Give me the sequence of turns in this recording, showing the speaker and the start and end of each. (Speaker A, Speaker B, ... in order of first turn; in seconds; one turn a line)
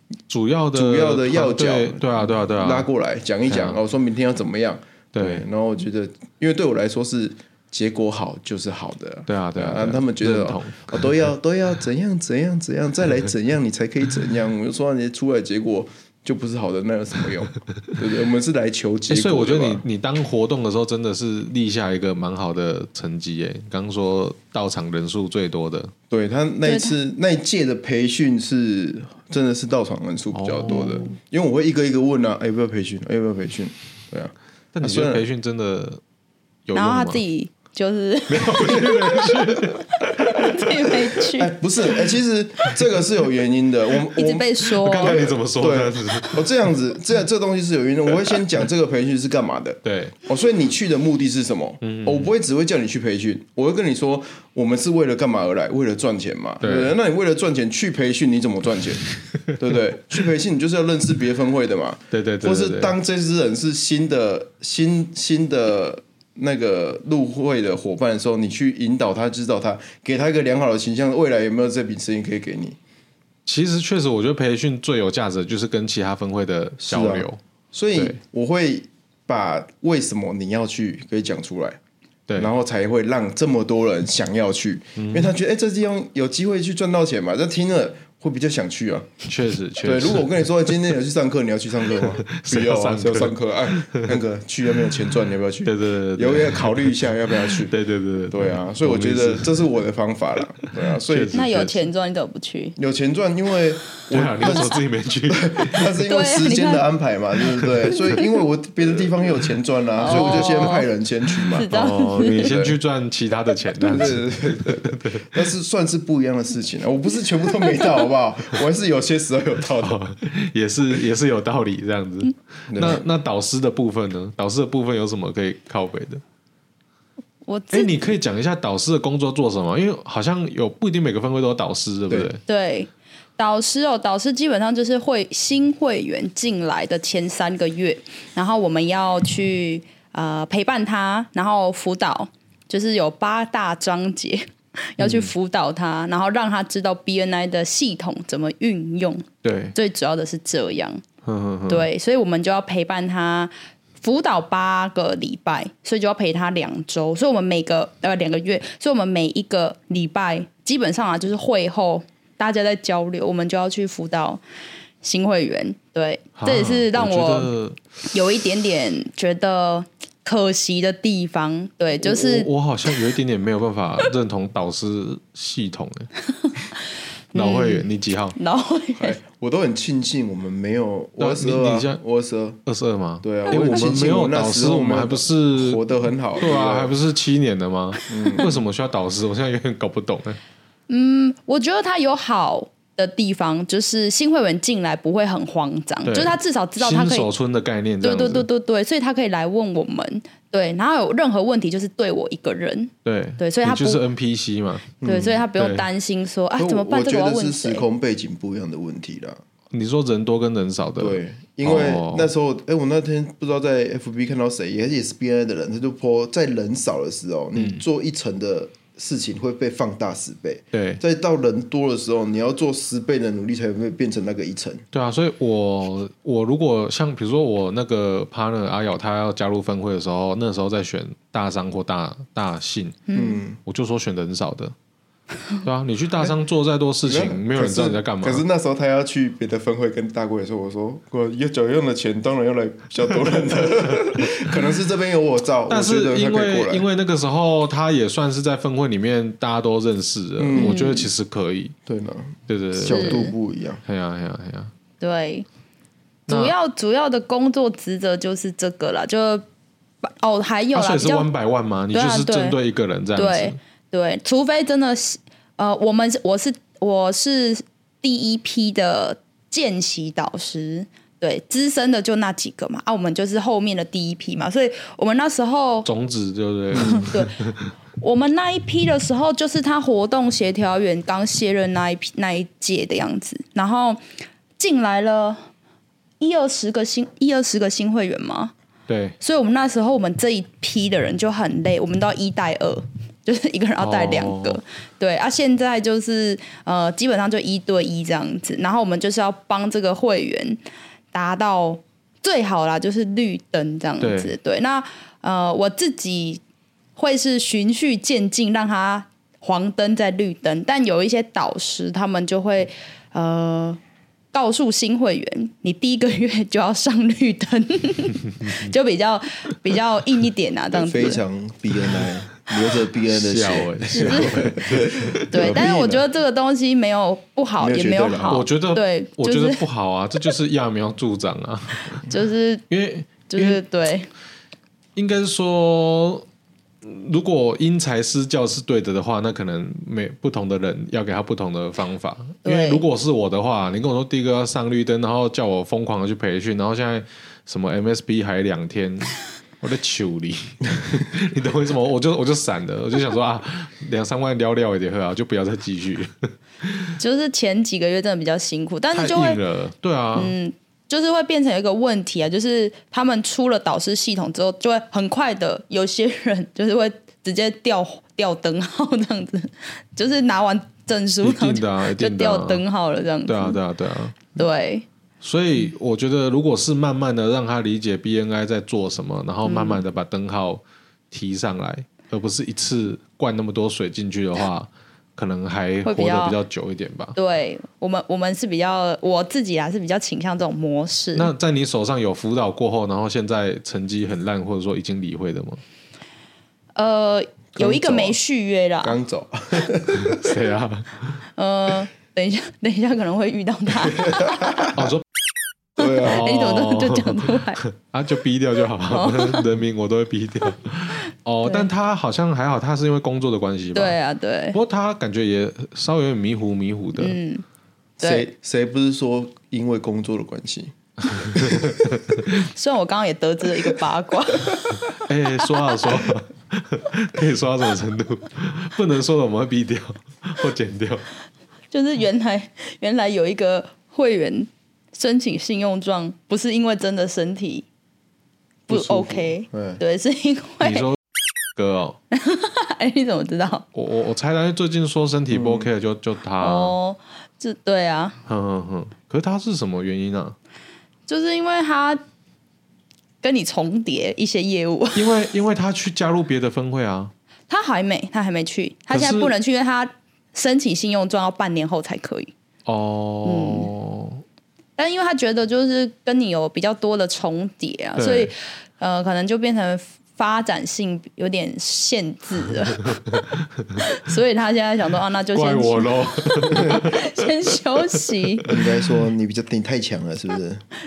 Speaker A: 0.3-2.9
Speaker B: 0.7-19.8
Speaker A: 3.5-3.8
Speaker A: 5.1-5.5
Speaker A: 9.3-11.2
Speaker A: 19.1-25.9
Speaker B: 26.1-35.3
Speaker C: 26.6-26.9
Speaker A: 30.3-31.1
Speaker C: 30.7-31.1
Speaker A: 34.7-36.0
Speaker A: 36.7-37.2
Speaker C: 36.7-38.9
Speaker A: 38.3-40.9
Speaker C: 40.2-41.5
Speaker B: 41.4-59.0
Speaker C: 44.1-45.2
Speaker A: 44.8-46.5
Speaker A: 49.9-50.1
Speaker A: 51.8-52.3
Speaker A: 56.6-56.9
Speaker B: 59.5-72.8
Speaker A: 62.1-63.0
Speaker A: 73.5-77.4
Speaker B: 76.8-81.8
Speaker B: 82.4-89.2
Speaker A: 85.0-85.3
Speaker A: 89.3-90.3
Speaker B: 89.8-97.8
Speaker A: 92.1-94.2
Speaker A: 95.7-99.6
Speaker B: 98.3-101.7
Speaker A: 101.1-101.8
Speaker C: 101.3-102.8
Speaker B: 102.8-104.8
Speaker A: 104.1-105.9
Speaker B: 105.3-111.7
Speaker C: 106.0-106.8
Speaker C: 110.0-110.9
Speaker A: 110.1-110.7
Speaker C: 111.5-112.6
Speaker A: 111.7-115.4
Speaker B: 112.3-112.8
Speaker B: 113.8-120.0
Speaker A: 119.8-126.2
Speaker B: 122.7-123.1
Speaker C: 127.5-128.1
Speaker A: 127.7-132.4
Speaker C: 132.5-151.0
Speaker A: 145.0-145.3
Speaker A: 149.4-149.8
Speaker A: 151.2-151.9
Speaker C: 151.7-164.4
Speaker C: 165.0-167.5
Speaker A: 166.4-167.8
Speaker C: 168.1-172.5
Speaker A: 172.0-176.1
Speaker C: 176.4-176.8
Speaker C: 177.3-179.2
Speaker A: 177.3-178.4
Speaker B: 179.0-182.6
Speaker A: 181.2-182.0
Speaker A: 182.7-190.4
Speaker B: 183.2-186.9
Speaker B: 188.1-188.6
Speaker C: 190.9-197.3
Speaker A: 196.1-198.5
Speaker C: 198.0-204.0
Speaker A: 203.1-205.0
Speaker B: 205.0-205.4
Speaker C: 205.0-207.9
Speaker A: 205.6-205.8
Speaker B: 206.6-209.4
Speaker A: 209.7-212.3
Speaker B: 211.0-224.8
Speaker A: 217.6-217.8
Speaker A: 220.7-221.0
Speaker A: 224.9-233.0
Speaker C: 233.1-233.4
Speaker B: 233.1-233.6
Speaker A: 233.7-234.7
Speaker A: 235.6-238.4
Speaker B: 237.0-246.9
Speaker A: 244.2-244.5
Speaker A: 245.7-251.7
Speaker B: 250.4-250.9
Speaker C: 250.6-251.1
Speaker B: 251.9-253.8
Speaker A: 252.5-253.3
Speaker C: 252.9-253.3
Speaker A: 253.8-254.7
Speaker C: 255.0-255.5
Speaker C: 256.3-259.4
Speaker A: 256.3-256.6
Speaker C: 260.0-261.3
Speaker A: 260.7-263.6
Speaker C: 261.9-262.6
Speaker C: 263.1-275.9
Speaker A: 275.9-277.7
Speaker B: 276.7-277.1
Speaker C: 276.8-277.4
Speaker C: 278.0-284.0
Speaker C: 284.6-285.4
Speaker C: 286.2-288.5
Speaker A: 288.9-289.2
Speaker C: 289.2-300.6
Speaker A: 293.8-294.6
Speaker C: 301.1-306.4
Speaker A: 304.0-304.3
Speaker C: 307.0-313.8
Speaker C: 314.3-321.2
Speaker B: 320.7-326.0
Speaker A: 323.1-325.6
Speaker C: 323.9-324.5
Speaker C: 325.3-329.6
Speaker B: 327.6-328.4
Speaker A: 328.3-332.1
Speaker C: 331.9-332.6
Speaker A: 332.7-333.6
Speaker C: 333.3-334.1
Speaker A: 335.0-336.2
Speaker A: 336.8-356.9
Speaker C: 342.4-342.8
Speaker C: 357.0-359.4
Speaker A: 358.9-360.3
Speaker C: 360.1-373.6
Speaker A: 371.2-372.6
Speaker A: 373.3-374.3
Speaker C: 374.3-374.9
Speaker A: 375.2-387.2
Speaker C: 379.4-379.8
Speaker C: 385.9-386.4
Speaker C: 387.2-391.3
Speaker A: 391.1-395.6
Speaker C: 396.8-399.0
Speaker B: 397.6-398.2
Speaker B: 398.8-400.4
Speaker A: 400.0-401.2
Speaker C: 401.4-404.5
Speaker B: 404.0-404.9
Speaker A: 404.7-405.0
Speaker B: 405.8-406.3
Speaker C: 406.0-407.6
Speaker A: 406.0-414.0
Speaker C: 408.9-409.5
Speaker C: 411.4-411.7
Speaker C: 413.8-414.6
Speaker A: 414.5-417.2
Speaker C: 417.0-417.4
Speaker B: 418.0-421.8
Speaker C: 418.0-418.3
Speaker A: 421.1-422.3
Speaker C: 422.4-424.9
Speaker A: 424.9-431.1
Speaker C: 425.4-425.9
Speaker C: 431.7-437.7
Speaker B: 438.7-439.8
Speaker C: 438.7-440.9
Speaker A: 440.6-441.0
Speaker A: 441.6-442.0
Speaker C: 442.1-443.6
Speaker A: 443.7-446.8
Speaker B: 445.3-445.7
Speaker C: 446.4-448.2
Speaker A: 448.3-450.4
Speaker C: 451.1-452.0
Speaker C: 453.2-455.2
Speaker A: 454.9-457.1
Speaker C: 457.5-462.3
Speaker A: 458.9-459.3
Speaker A: 462.7-464.2
Speaker C: 463.2-463.7
Speaker C: 464.8-472.9
Speaker A: 468.0-468.3
Speaker C: 473.8-478.5
Speaker A: 475.3-477.3
Speaker B: 478.5-480.6